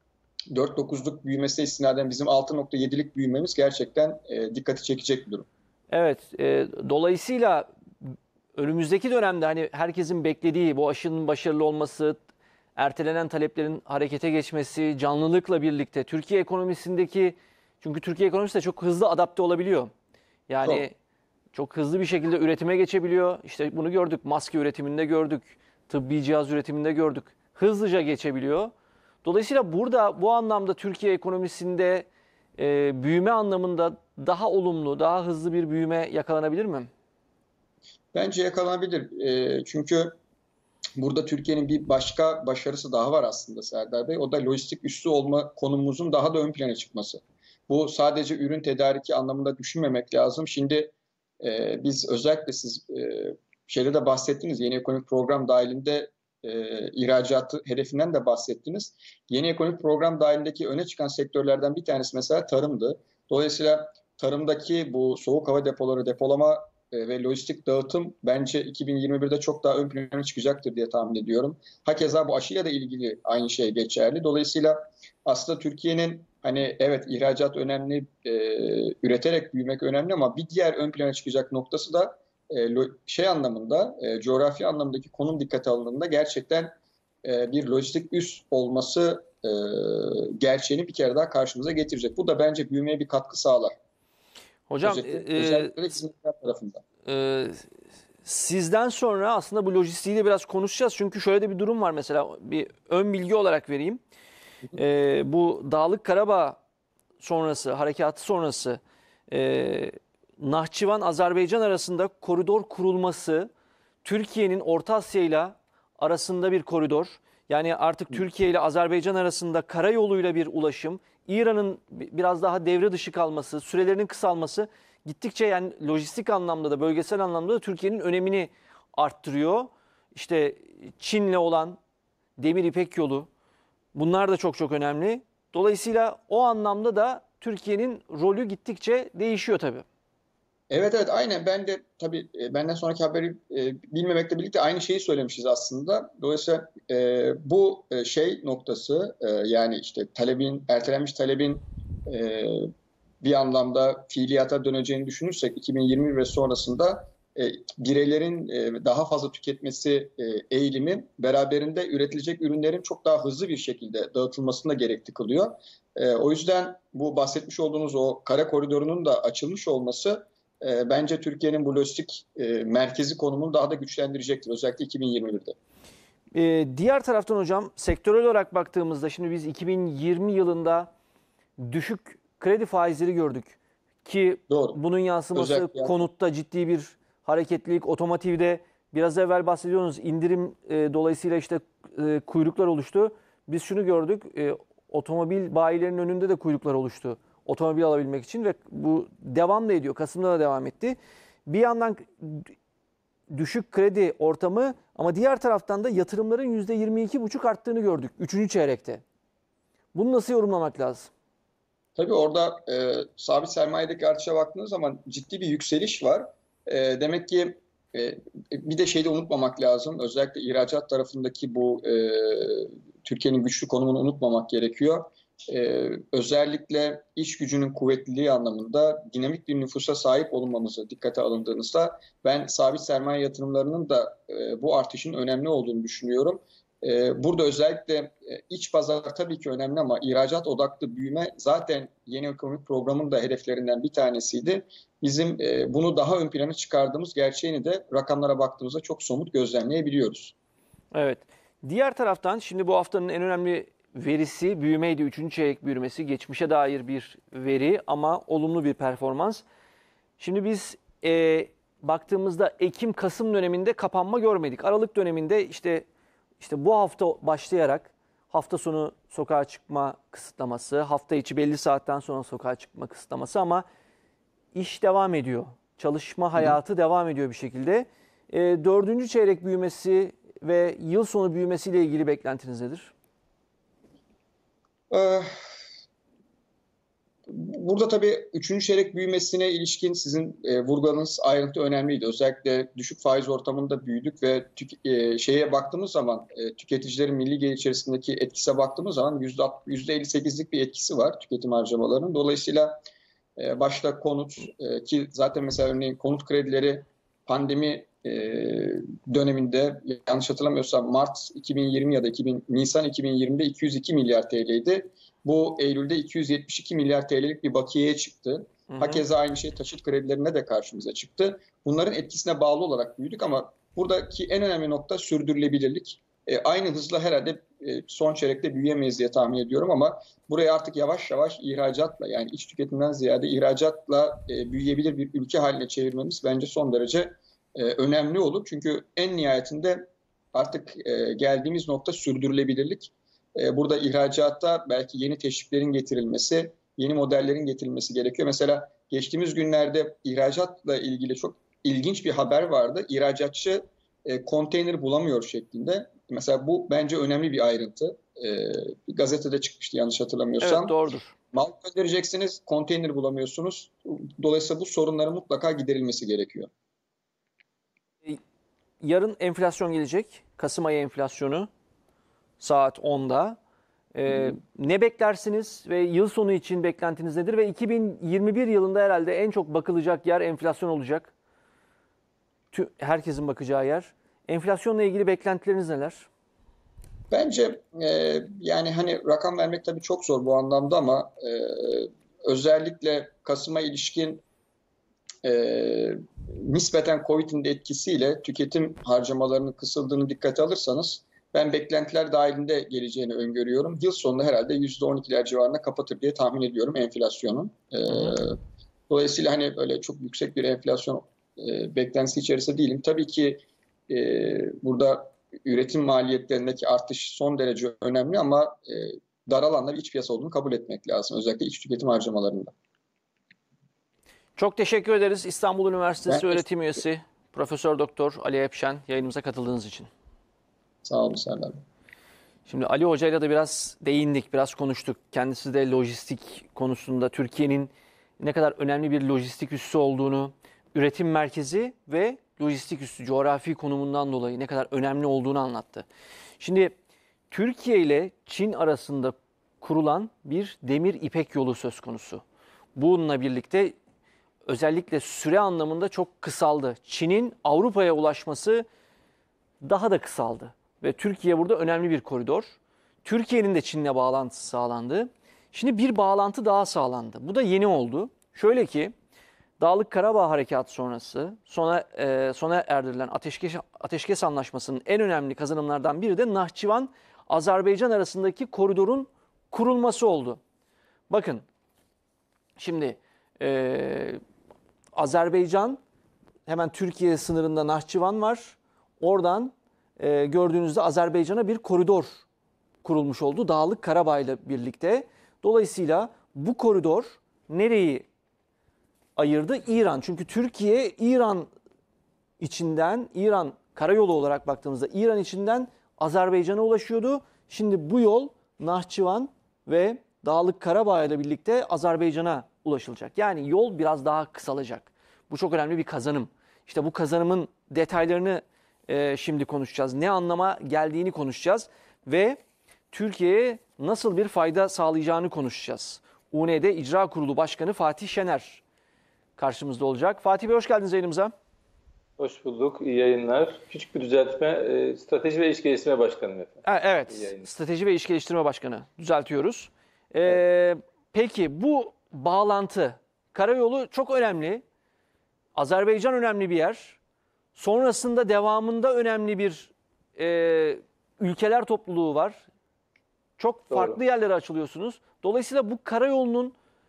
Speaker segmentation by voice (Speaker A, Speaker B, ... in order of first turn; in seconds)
Speaker A: 0.5-5.5, 38.1-40.1, 41.0-93.7, 94.8-96.8, 140.7-152.7, 153.2-175.6, 184.5-184.8, 185.3-186.0, 212.0-250.3, 284.9-285.3, 287.3-302.8, 303.4-360.7, 361.3-366.5, 387.1-394.2, 395.2-422.5, 426.1-426.4, 430.8-431.6
Speaker B: 5.9-12.2, 12.8-19.9, 20.5-20.9, 21.5-28.7, 29.2-32.0, 32.6-36.9, 94.7-95.7, 97.0-97.7, 98.2-104.0, 104.7-106.6, 107.2-113.5, 114.0-131.8, 132.4-133.3, 133.9-139.8, 176.3-180.9, 181.6-202.5, 203.3-209.0, 209.9-211.1, 250.9-259.4, 260.2-265.8, 266.4-273.6, 274.5-282.9, 318.7-319.0, 360.4-361.1, 368.8-371.5, 372.4-373.4, 373.9-381.1, 382.5-386.1, 424.4-429.9, 432.5-445.9, 446.4-446.7, 447.3-452.2, 452.8-453.7, 454.4-458.6, 459.6-468.9, 469.6-480.4, 481.1-481.4, 482.6-484.2, 484.9-485.8, 486.4-492.2, 492.8-498.1, 499.1-501.5, 502.4-522.4, 522.9-528.6, 529.4-531.3, 536.6-544.6, 545.5-547.0, 547.5-552.4, 553.4-556.5
Speaker C: 532.2-537.5, 553.7-554.0